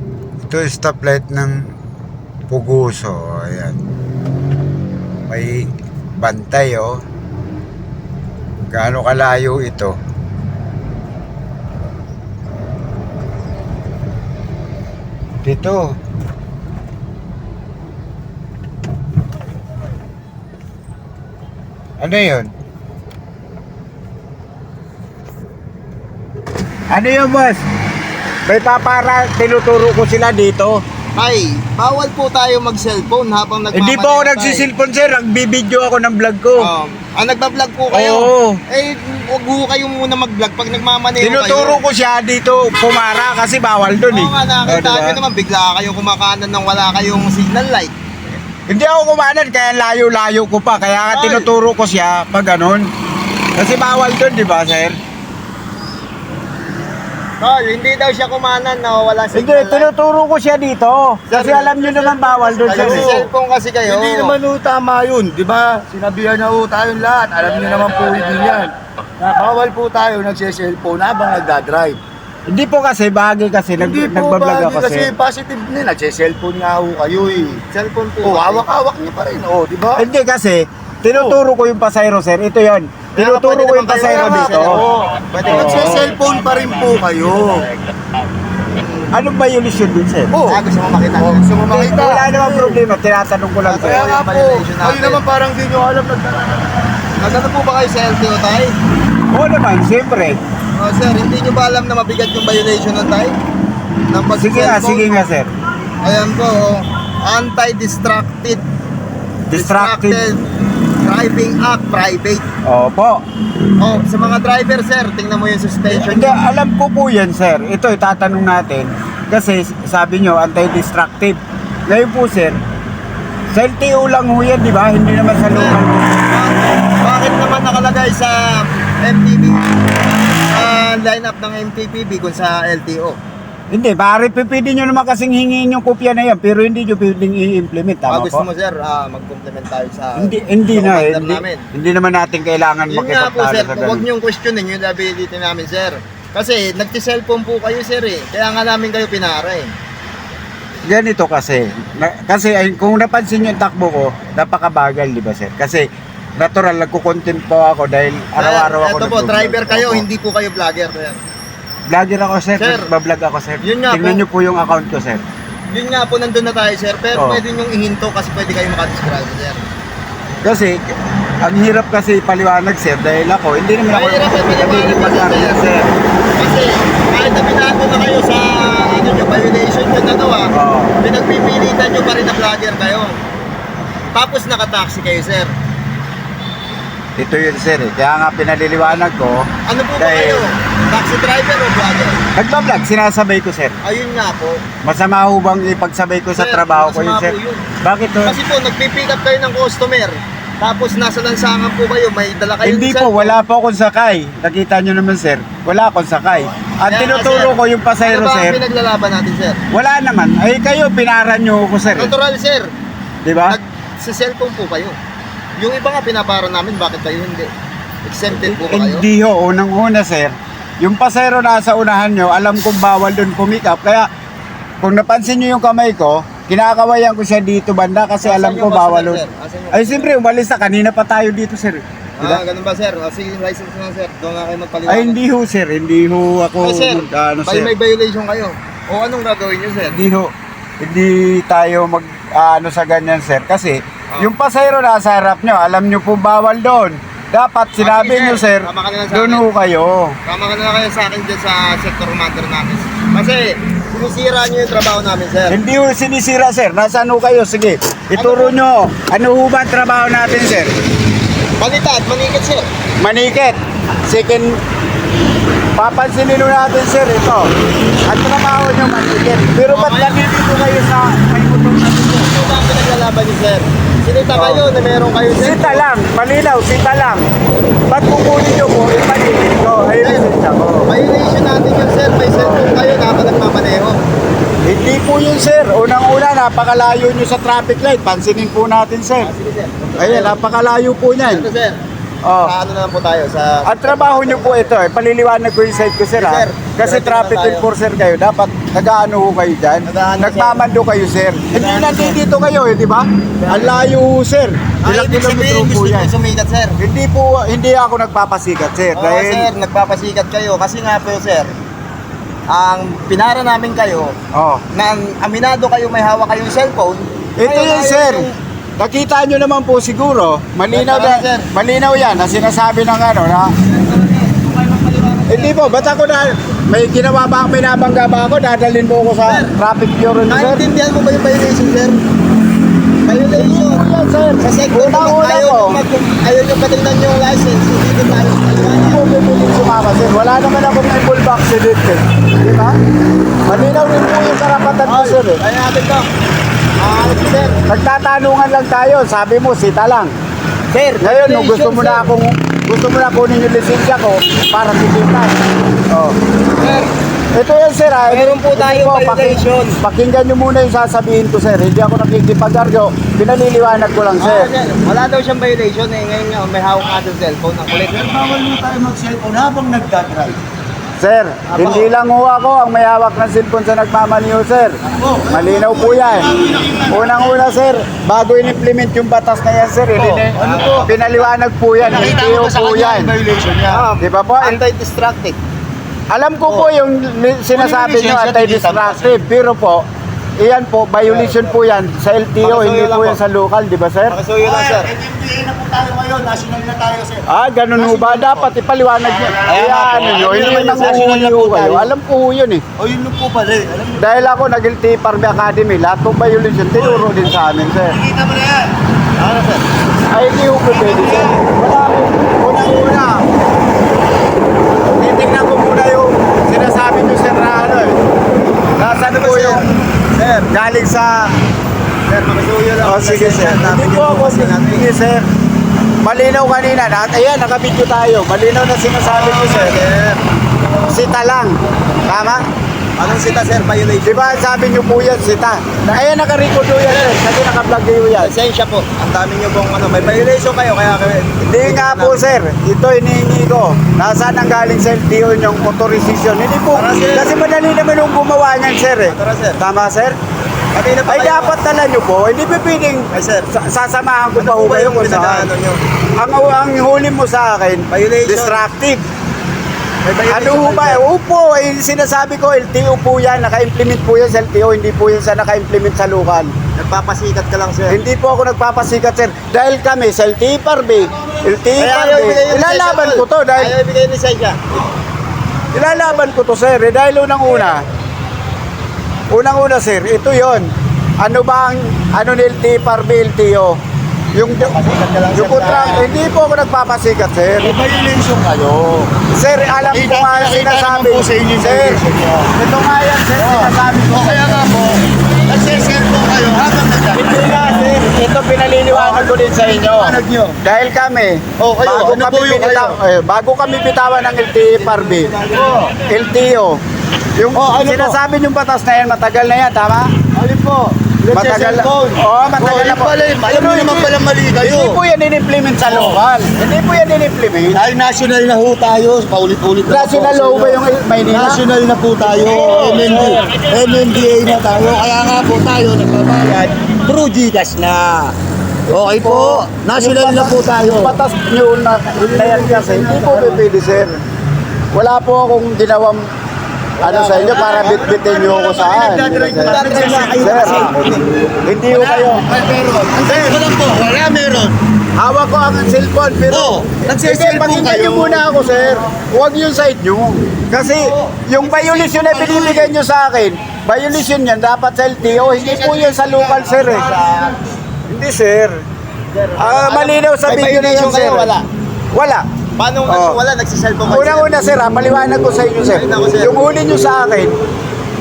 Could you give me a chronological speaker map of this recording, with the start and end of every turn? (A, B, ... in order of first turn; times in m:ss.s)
0:00.5-0:01.7 A
0:02.5-0:03.8 A
0:05.3-0:07.0 A
0:08.7-0:10.0 A
0:15.4-0:16.0 A
0:22.0-0:22.5 A
0:26.9-0:27.6 A
0:28.4-0:30.8 A
0:31.2-0:34.7 B
0:33.7-0:36.7 A
0:36.6-0:41.8 B
0:37.9-0:38.6 A
0:41.2-0:45.2 A
0:44.1-0:47.9 B
0:48.7-0:52.9 A
0:51.1-0:51.5 B
0:53.6-0:55.0 A
0:57.4-0:59.9 B
0:59.3-1:03.1 A
1:01.3-1:04.3 B
1:02.1-1:03.2 C
1:03.8-1:12.0 C
1:12.5-1:15.1 A
1:13.8-1:17.7 C
1:17.6-1:18.6 B
1:18.2-1:20.0 C
1:20.0-1:24.8 A
1:21.1-1:21.4 C
1:23.2-1:26.0 B
1:24.0-1:27.7 C
1:25.4-1:26.1 A
1:28.8-1:29.1 B
1:29.1-1:30.3 A
1:30.3-1:30.6 C
1:30.5-1:31.5 B
1:31.2-1:32.8 C
1:31.7-1:34.1 A
1:33.7-1:37.0 C
1:33.7-1:35.2 B
1:37.2-1:38.8 B
1:39.3-1:40.4 A
1:40.8-1:43.4 B
1:44.1-1:45.2 B
1:44.4-1:45.5 A
1:46.0-1:48.6 B
1:49.5-1:50.2 A
1:49.5-1:50.4 B
1:51.0-1:52.4 B
1:52.6-1:53.2 A
1:53.8-1:56.4 B
1:55.9-2:02.6 A
2:03.5-2:06.2 A
2:05.5-2:13.2 B
2:13.7-2:18.4 A
2:18.1-2:21.7 B
2:20.2-2:24.0 A
2:22.9-2:29.7 B
2:30.8-2:35.8 A
2:36.4-2:40.0 A
2:38.4-2:41.2 B
2:41.9-2:45.2 A
2:42.6-2:42.9 B
2:43.6-2:44.2 B
2:45.7-2:49.6 B
2:47.1-2:47.4 A
2:50.4-2:50.9 A
2:51.4-2:55.9 A
2:53.9-2:55.7 B
2:56.4-3:03.2 B
3:00.5-3:01.0 A
3:04.1-3:05.5 B
3:07.2-3:09.5 A
3:09.6-3:12.2 B
3:10.0-3:10.4 A
3:12.4-3:13.8 A
3:13.8-3:14.6 B
3:14.8-3:18.4 A
3:16.3-3:17.7 B
3:18.2-3:23.4 B
3:22.6-3:28.6 A
3:26.8-3:29.6 B
3:29.7-3:32.1 A
3:32.0-3:32.7 B
3:33.2-3:33.6 A
3:33.4-3:35.0 B
3:35.6-3:37.5 B
3:38.0-3:39.1 B
3:38.4-3:44.1 A
3:44.8-3:49.2 A
3:48.2-3:50.1 B
3:49.7-3:52.4 A
3:52.2-3:55.2 B
3:54.9-3:57.7 A
3:56.6-4:00.0 B
3:59.8-4:10.2 A
4:07.8-4:09.4 B
4:10.2-4:15.6 B
4:15.5-4:20.7 A
4:18.2-4:18.6 B
4:21.6-4:22.6 B
4:23.0-4:24.6 A
4:25.8-4:27.5 A
4:28.0-4:32.5 A
4:29.7-4:30.2 B
4:32.3-4:35.8 B
4:34.3-4:34.6 A
4:35.4-4:37.2 A
4:37.9-4:40.9 A
4:40.0-4:40.3 B
4:40.8-4:44.0 B
4:42.3-4:42.7 A
4:44.6-4:49.3 A
4:49.2-4:50.4 B
4:50.0-4:51.5 A
4:51.3-4:51.8 B
4:52.2-4:52.5 A
4:52.4-4:54.7 B
4:53.6-5:06.1 A
4:56.2-4:57.7 B
4:59.8-5:00.6 B
5:01.5-5:02.2 B
5:03.4-5:03.9 B
5:04.8-5:06.8 B
5:06.8-5:09.5 A
5:08.9-5:11.5 B
5:12.5-5:14.1 B
5:14.3-5:14.6 A
5:14.7-5:18.4 B
5:17.4-5:18.3 A
5:18.8-5:23.5 A
5:20.7-5:21.5 B
5:23.7-5:26.0 B
5:25.3-5:30.6 A
5:29.2-5:29.5 B
5:30.3-5:32.0 B
5:33.0-5:33.8 B
5:33.3-5:35.8 A
5:34.4-5:39.0 B
5:38.9-5:42.8 A
5:43.4-5:45.4 A
5:44.8-5:46.1 B
5:46.8-5:47.6 B
5:47.7-5:50.1 A
5:50.7-5:52.1 B
5:51.0-5:56.2 A
5:56.6-5:56.9 B
5:57.3-6:04.5 A
5:58.0-5:59.8 B
6:04.2-6:08.0 B
6:07.8-6:10.4 C
6:11.0-6:14.8 A
6:11.5-6:11.9 B
6:14.9-6:17.4 C
6:15.3-6:16.3 A
6:16.8-6:23.1 A
6:20.0-6:20.9 C
6:20.4-6:21.3 B
6:21.8-6:23.8 C
6:23.7-6:25.4 B
6:24.0-6:24.6 A
6:26.1-6:29.8 A
6:27.5-6:29.2 C
6:30.4-6:34.2 A
6:31.0-6:31.6 B
6:32.4-6:33.2 B
6:34.1-6:34.9 B
6:34.4-6:38.5 C
6:37.3-6:42.6 A
6:39.3-6:41.9 C
6:40.0-6:41.2 B
6:42.8-6:44.1 C
6:44.0-6:48.0 A
6:46.7-6:48.8 C
6:49.2-6:49.6 B
6:50.1-6:53.2 A
6:50.7-6:51.4 C
6:54.9-6:58.0 A
6:58.8-6:59.7 A
6:59.1-7:00.5 B
7:00.5-7:01.3 A
7:02.1-7:04.8 B
7:02.8-7:05.3 A
7:06.0-7:09.8 A
7:09.0-7:10.2 B
7:10.9-7:12.4 A
7:13.0-7:14.4 B
7:14.0-7:18.3 A
7:16.8-7:17.2 B
7:18.2-7:22.2 B
7:21.4-7:30.2 A
7:26.7-7:27.3 B
7:29.1-7:29.6 B
7:30.7-7:31.5 B
7:31.1-7:35.5 A
7:33.1-7:33.5 B
7:34.4-7:35.8 B
7:36.2-7:39.0 A
7:37.9-7:38.6 B
7:40.0-7:41.1 B
7:40.3-7:46.5 A
7:46.8-7:48.0 B
7:47.9-7:53.7 A
7:51.8-7:54.8 B
7:55.7-7:57.8 A
7:59.3-8:03.8 A
8:04.3-8:04.7 A
8:04.6-8:06.1 B
8:05.3-8:07.8 A
8:07.6-8:09.1 C
8:09.3-8:12.0 A
8:09.9-8:12.5 C
8:12.5-8:14.6 A
8:13.3-8:18.0 C
8:17.1-8:25.3 A
8:18.9-8:20.6 C
8:21.6-8:23.0 C
8:25.0-8:25.9 C
8:25.4-8:25.7 B
8:26.0-8:26.8 A
8:27.4-8:30.1 A
8:27.5-8:28.2 C
8:30.3-8:35.0 C
8:31.3-8:37.9 A
8:35.8-8:36.2 C
8:37.7-8:48.3 C
8:39.9-8:41.6 A
8:42.2-8:43.4 A
8:48.9-8:51.2 C
8:48.9-8:54.2 A
8:52.2-8:53.7 C
8:54.9-8:56.2 A
8:57.0-9:00.9 A
8:57.0-9:01.2 C
8:59.6-9:01.2 B
9:01.6-9:02.4 A
9:01.9-9:04.8 C
9:03.2-9:03.7 A
9:05.2-9:17.1 A
9:06.5-9:08.5 C
9:10.9-9:12.9 C
9:15.5-9:17.1 C
9:16.7-9:17.6 B
9:18.1-9:18.8 A
9:19.3-9:21.6 B
9:19.6-9:21.5 A
9:22.1-9:22.4 A
9:22.8-9:24.5 B
9:23.1-9:23.4 A
9:24.0-9:27.6 A
9:25.8-9:26.6 B